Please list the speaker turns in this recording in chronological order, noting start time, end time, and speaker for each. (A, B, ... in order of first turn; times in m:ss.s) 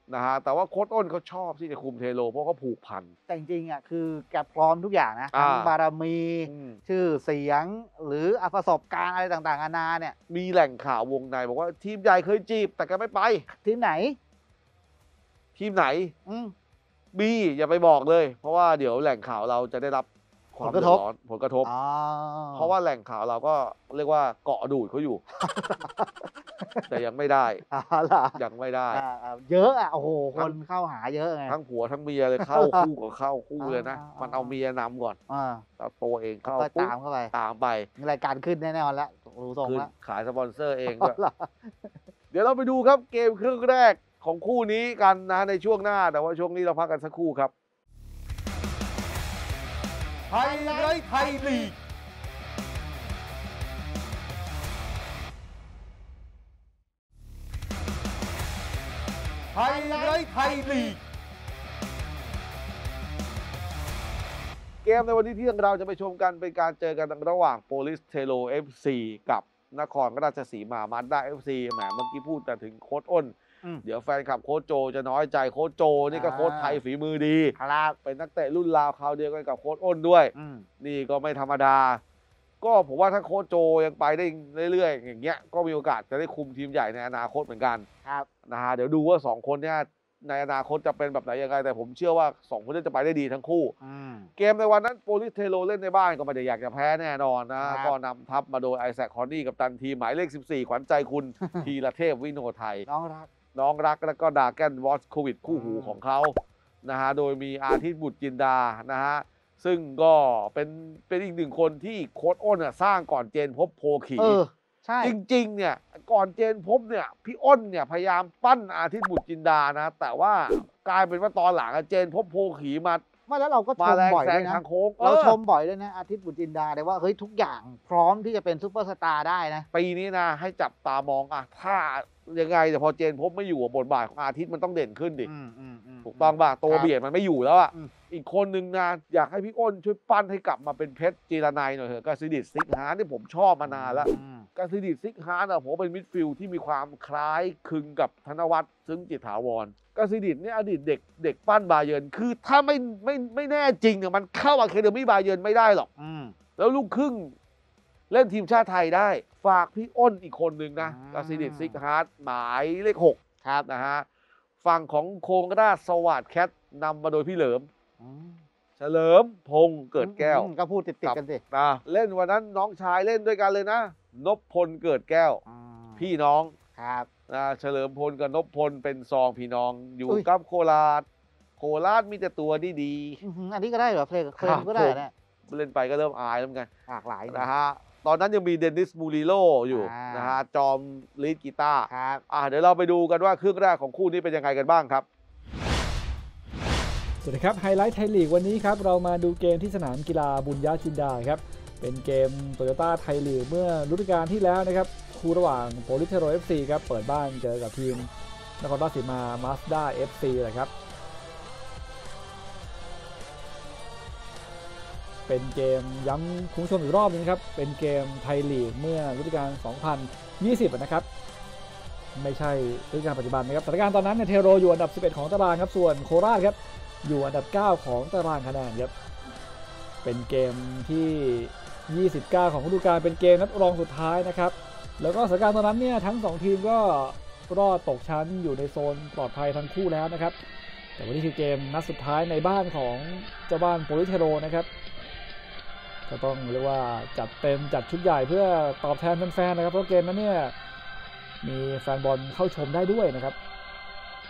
0:00.1-0:03.1 A
0:03.3-0:10.2 B
0:05.3-0:05.7 A
0:06.4-0:06.8 A
0:10.3-0:13.4 A
0:13.5-0:14.2 B
0:15.6-0:16.2 A
0:16.3-0:16.5 B
0:17.1-0:21.7 A
0:20.6-0:21.0 B
0:21.6-0:22.7 B
0:22.5-0:25.2 A
0:25.4-0:26.9 B
0:26.9-0:27.6 A
0:27.7-0:31.6 B
0:28.4-0:29.0 A
0:31.5-0:35.2 A
0:32.4-0:32.9 B
0:33.6-0:34.5 B
0:35.3-0:35.6 B
0:35.8-0:37.9 A
0:36.6-0:37.3 B
0:38.0-0:39.9 B
0:39.6-0:41.2 A
0:40.9-0:41.9 B
0:42.3-0:47.5 A
0:50.3-0:51.8 B
0:59.6-1:01.0 B
1:04.8-1:22.0 A
1:16.1-1:16.8 B
1:17.6-1:18.0 B
1:20.4-1:20.7 B
1:22.6-1:27.9 A
1:28.5-1:33.7 A
1:33.8-1:34.3 B
1:34.4-1:42.8 A
1:37.6-1:37.9 B
1:42.9-1:43.3 B
1:43.6-1:54.4 A
1:45.5-1:46.0 B
1:54.2-1:55.1 B
1:55.0-2:03.0 A
2:03.3-2:09.7 B
2:03.8-2:05.4 A
2:09.7-2:15.3 A
2:15.2-2:16.9 B
2:16.0-2:35.9 A
2:23.6-2:24.5 B
2:36.0-2:36.4 B
2:36.6-2:37.4 A
2:38.1-2:44.1 A
2:40.8-2:41.8 B
2:44.6-2:47.7 A
2:48.0-2:48.4 B
2:48.8-2:50.5 A
2:50.0-2:51.4 B
2:51.0-2:55.4 A
2:55.5-2:56.0 B
2:56.0-2:56.6 A
2:56.8-2:57.1 B
2:57.3-3:01.1 A
3:01.6-3:03.2 A
3:03.2-3:05.1 B
3:04.4-3:06.7 A
3:06.9-3:07.5 B
3:07.3-3:15.1 A
3:09.7-3:10.4 B
3:11.9-3:12.2 B
3:17.2-3:28.1 C
3:28.6-3:30.7 C
3:35.3-3:41.1 C
3:42.2-3:48.9 C
3:50.0-4:00.4 C
4:01.0-4:04.7 C
4:06.1-4:10.5 C
4:11.4-4:13.4 C